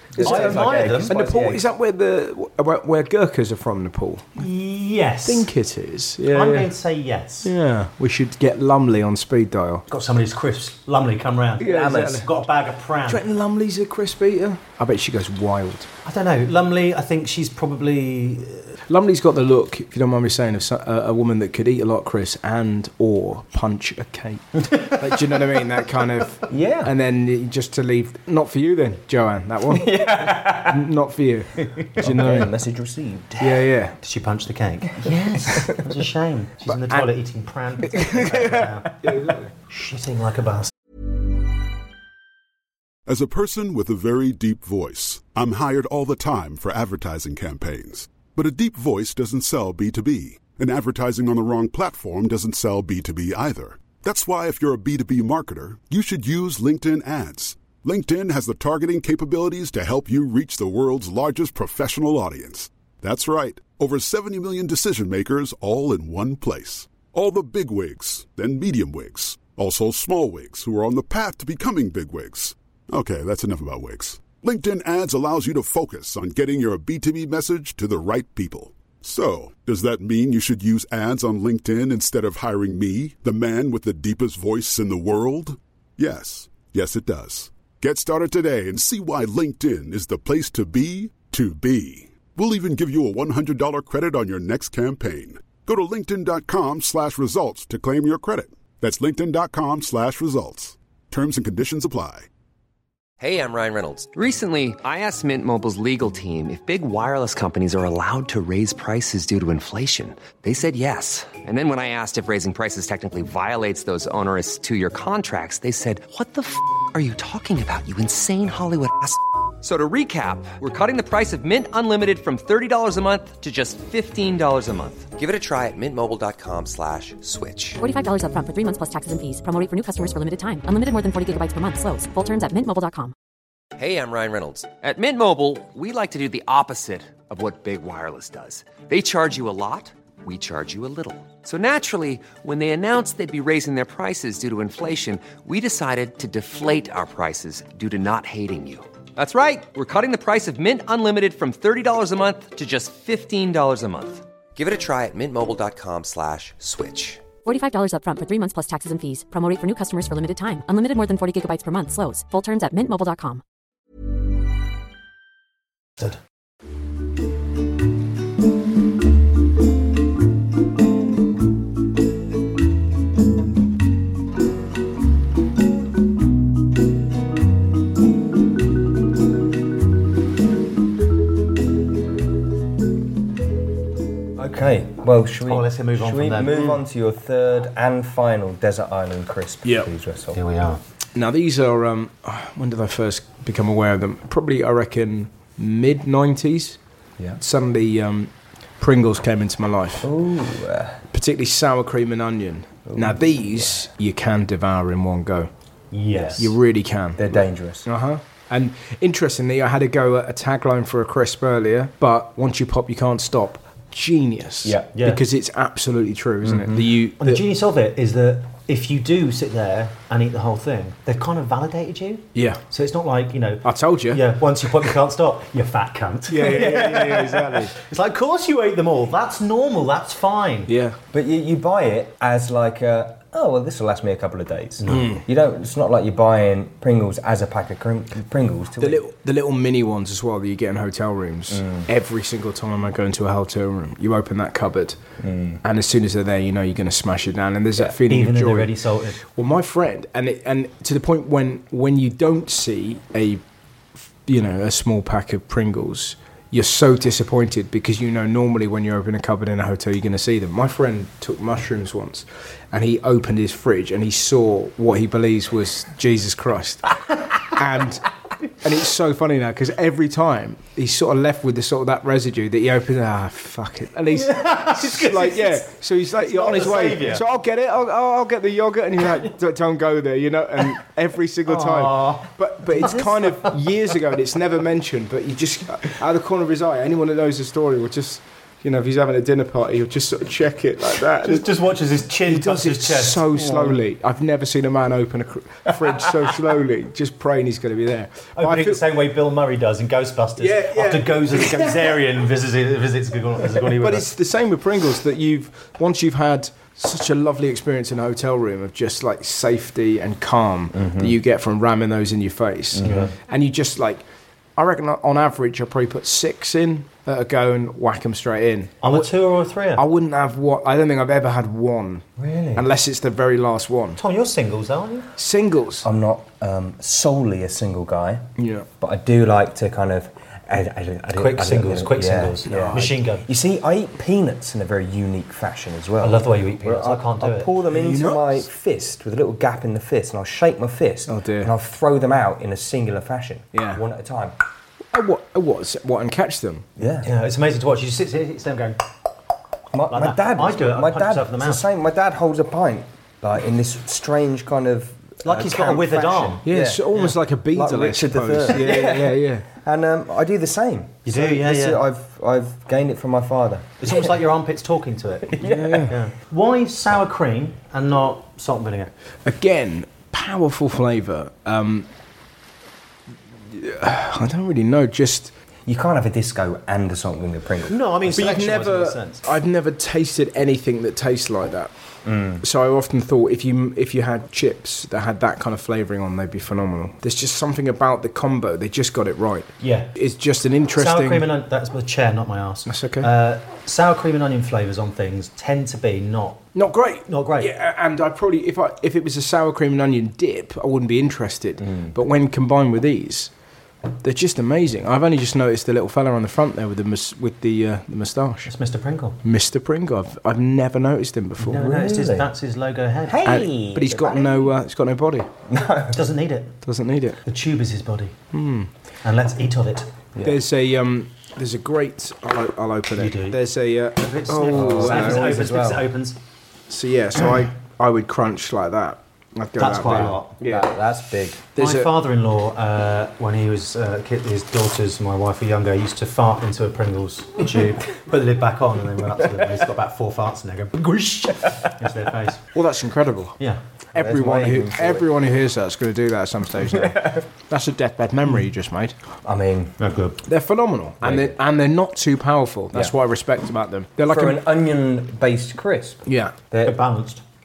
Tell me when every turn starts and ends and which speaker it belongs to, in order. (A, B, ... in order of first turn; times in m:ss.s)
0:00.1-0:04.4 A
0:00.2-0:01.7 B
0:00.2-0:01.2 C
0:04.4-0:05.5 C
0:05.2-0:06.7 A
0:06.3-0:07.5 C
0:07.4-0:09.8 A
0:09.9-0:13.2 C
0:11.6-0:12.3 A
0:11.6-0:12.3 B
0:13.1-0:15.9 A
0:16.0-0:18.7 C
0:18.9-0:32.5 A
0:26.5-0:26.9 B
0:29.7-0:30.9 B
0:31.6-0:32.4 C
0:32.0-0:33.4 B
0:33.4-0:34.0 A
0:34.0-0:39.2 C
0:35.0-0:35.8 B
0:36.7-0:37.1 A
0:37.8-0:39.5 A
0:39.7-0:40.7 C
0:43.1-1:42.3 D
1:43.2-2:07.8 E
2:07.8-2:13.1 F
2:13.8-2:37.2 E
2:37.4-2:43.4 F
3:04.4-3:10.4 B
3:05.5-3:06.6 C
3:10.3-3:10.8 C
3:11.2-3:16.8 A
3:17.4-3:20.1 A
3:20.0-3:21.0 B
3:21.1-3:25.5 A
3:22.9-3:23.8 B
3:25.9-3:26.5 C
3:26.4-3:37.4 A
3:27.2-3:27.9 B
3:34.6-3:34.9 B
3:35.0-3:35.2 C
3:36.4-3:36.8 B
3:37.2-3:50.7 C
3:42.4-3:42.6 A
3:43.6-3:44.2 A
3:46.3-3:47.7 A
3:50.7-3:51.0 A
3:51.1-3:59.0 B
3:54.8-3:55.1 C
3:54.9-3:55.2 A
3:58.8-4:05.0 A
4:01.5-4:01.9 B
4:05.2-4:05.6 B
4:05.6-4:13.4 A
4:08.0-4:09.2 C
4:14.3-4:28.1 A
4:28.6-4:51.5 A
4:34.2-4:35.7 C
4:36.3-4:37.2 C
4:41.5-4:43.6 C
4:51.2-4:53.8 C
4:52.3-4:58.9 A
4:58.4-5:04.1 C
5:00.4-5:02.0 A
5:03.6-5:14.0 A
5:10.7-5:11.2 B
5:12.8-5:13.1 B
5:12.8-5:13.1 C
5:14.6-5:19.1 A
5:18.8-5:19.8 C
5:19.8-5:24.0 A
5:22.2-5:22.6 B
5:24.0-5:25.1 C
5:25.2-5:25.9 A
5:25.8-5:44.4 B
5:28.4-5:28.7 A
5:31.1-5:33.3 C
5:32.5-5:32.9 A
5:36.0-5:37.5 C
5:37.7-5:38.4 A
5:41.1-5:41.5 A
5:43.5-5:43.8 A
5:44.9-5:46.7 A
5:46.8-5:47.1 B
5:47.0-5:48.8 C
5:49.7-6:04.1 B
5:49.9-5:51.7 C
5:55.2-5:56.4 C
5:56.4-5:59.5 A
6:01.1-6:01.8 C
6:03.8-6:08.9 C
6:05.3-6:06.0 B
6:05.4-6:06.0 A
6:09.2-6:11.9 A
6:13.5-6:15.3 A
6:15.7-6:17.8 B
6:17.7-6:19.2 C
6:18.1-6:21.7 A
6:22.0-6:22.4 B
6:22.4-6:31.3 A
6:29.6-6:29.9 C
6:30.8-6:36.4 C
6:32.7-6:33.1 A
6:36.6-6:43.3 A
6:37.1-6:37.5 C
6:44.0-6:48.5 A
6:48.5-6:49.2 C
6:49.2-6:51.7 A
6:51.4-6:53.3 C
6:51.5-6:52.3 B
6:53.1-6:54.5 B
6:53.2-6:55.3 A
6:55.5-6:56.0 B
6:55.9-6:56.6 C
6:56.6-6:57.2 A
6:57.2-6:58.2 C
6:58.3-6:58.7 A
6:59.0-6:59.9 C
7:00.2-7:05.4 A
7:03.0-7:03.4 C
7:04.0-7:06.2 C
7:04.5-7:05.8 B
7:06.7-7:10.7 A
7:09.6-7:10.3 C
7:10.4-7:11.4 B
7:11.6-7:11.9 A
7:11.6-7:22.4 C
7:22.5-7:23.4 A
7:23.9-7:25.1 B
7:23.9-7:29.0 A
7:26.7-7:27.2 B
7:29.2-7:29.8 B
7:29.8-7:30.2 C
7:30.3-7:34.5 A
7:31.0-7:31.4 B
7:34.1-7:36.8 B
7:36.1-7:36.3 A
7:36.6-7:37.2 C